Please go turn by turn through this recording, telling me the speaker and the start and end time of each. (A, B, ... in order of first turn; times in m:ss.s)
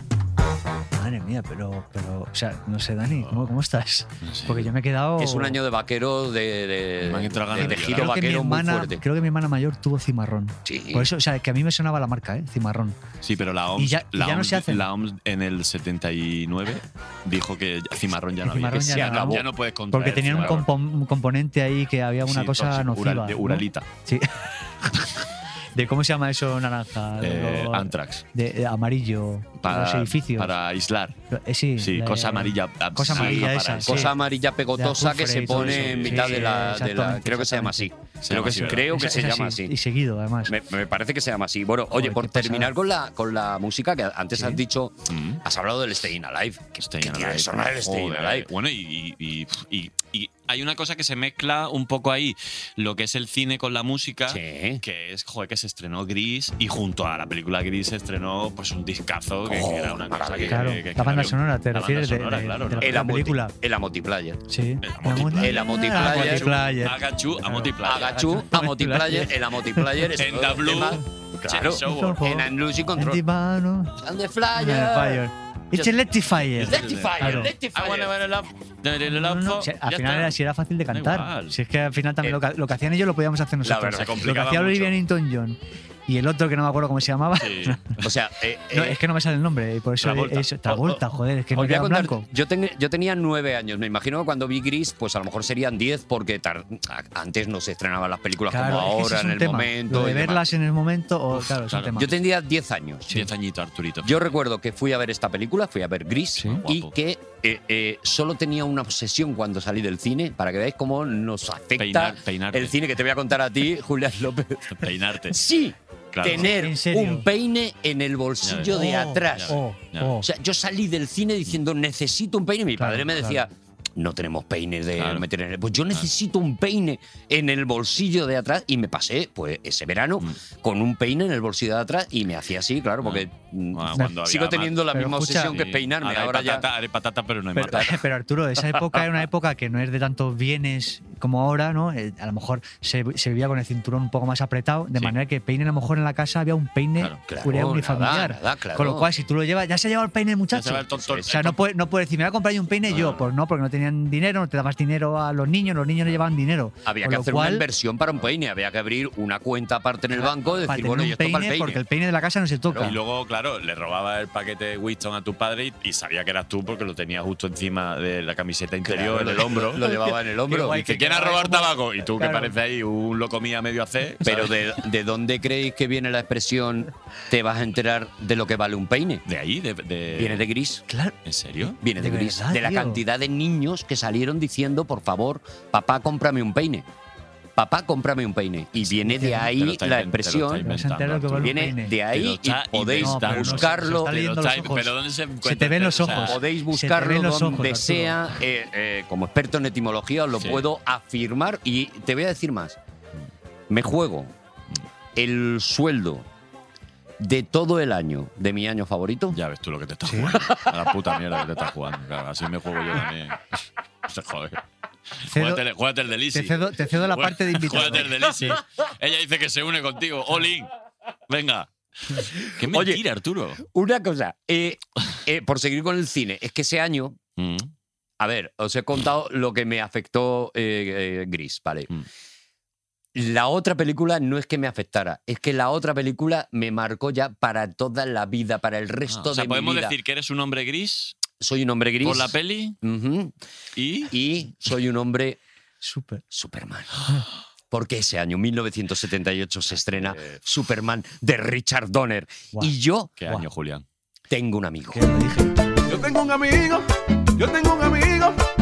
0:00.9-0:05.6 A
0:04.2-0:04.7 B
0:05.2-0:09.0 C
0:07.0-0:08.1 B
0:07.6-0:13.0 A
0:10.6-0:11.1 C
0:13.2-0:20.7 B
0:13.8-0:14.8 A
0:18.4-0:24.3 A
0:18.7-0:19.4 C
0:22.2-0:23.8 B
0:25.7-0:30.5 A
0:27.2-0:28.2 B
0:29.6-0:31.2 B
0:31.3-0:34.1 A
0:31.8-0:34.1 B
0:33.1-0:39.7 C
0:34.8-0:37.9 A
0:35.5-0:36.4 B
0:38.2-0:39.0 B
0:38.9-0:40.5 A
0:40.4-0:48.5 C
0:41.9-0:42.7 A
0:45.1-0:45.4 B
0:46.8-1:03.0 B
0:54.3-0:54.8 C
0:59.4-1:00.7 C
1:00.4-1:03.5 A
1:02.8-1:04.4 C
1:04.5-1:10.1 A
1:04.8-1:08.3 B
1:05.4-1:06.5 C
1:07.8-1:13.2 C
1:10.2-1:12.3 B
1:11.8-1:14.0 A
1:14.0-1:15.9 C
1:14.5-1:17.5 A
1:16.6-1:18.2 C
1:16.6-1:20.3 B
1:19.1-1:27.9 A
1:20.9-1:21.6 B
1:23.6-1:24.3 C
1:23.9-1:25.0 B
1:27.4-1:28.1 B
1:28.0-1:29.0 C
1:28.7-1:32.2 A
1:30.0-1:31.0 B
1:31.5-1:40.4 C
1:38.5-1:42.1 A
1:41.3-1:42.0 B
1:42.0-1:43.2 C
1:43.1-1:44.3 B
1:44.0-1:59.6 C
1:46.4-1:46.9 B
1:51.8-1:52.8 B
1:54.8-1:55.4 B
1:56.1-1:56.5 B
1:56.3-1:57.3 A
1:58.4-2:00.2 B
1:58.7-2:00.3 A
2:00.2-2:16.6 C
2:02.8-2:03.4 A
2:05.0-2:05.2 B
2:13.0-2:18.0 B
2:14.9-2:15.5 A
2:17.6-2:37.6 A
2:27.3-2:29.1 C
2:30.5-2:31.6 B
2:31.0-2:31.5 C
2:32.9-2:33.2 C
2:36.8-2:41.8 C
2:40.2-2:42.9 A
2:42.7-2:43.0 C
2:42.8-2:49.8 B
2:48.8-2:50.9 C
2:50.5-2:52.5 A
2:50.7-2:54.6 B
2:54.2-2:59.2 C
2:59.2-3:00.4 B
3:00.2-3:00.8 C
3:00.9-3:01.1 A
3:01.2-3:01.8 B
3:01.8-3:06.8 C
3:02.0-3:03.0 A
3:07.6-3:10.7 C
3:09.0-3:09.4 A
3:09.2-3:16.4 B
3:10.7-3:11.9 A
3:11.4-3:14.1 C
3:13.0-3:14.9 A
3:15.4-3:18.2 A
3:16.2-3:22.8 C
3:20.3-3:20.6 B
3:23.7-3:24.3 C
3:25.2-3:26.3 C
3:27.2-3:29.4 C
3:29.3-3:33.4 B
3:30.0-3:30.4 A
3:34.0-3:34.6 B
3:35.2-3:40.7 B
3:35.2-3:35.6 A
3:36.3-3:38.1 A
3:41.3-3:43.6 B
3:42.6-3:43.0 C
3:43.6-3:47.2 C
3:47.4-3:47.7 B
3:48.2-3:51.9 C
3:53.1-3:59.9 C
3:59.1-4:01.2 B
4:01.4-4:03.4 C
4:02.0-4:02.8 B
4:03.8-4:04.1 B
4:04.1-4:05.4 C
4:05.8-4:06.2 A
4:06.3-4:07.0 C
4:07.7-4:13.1 C
4:09.7-4:10.4 B
4:13.2-4:13.8 B
4:14.3-4:15.0 C
4:14.9-4:15.6 A
4:15.9-4:16.8 D
4:17.4-4:18.4 D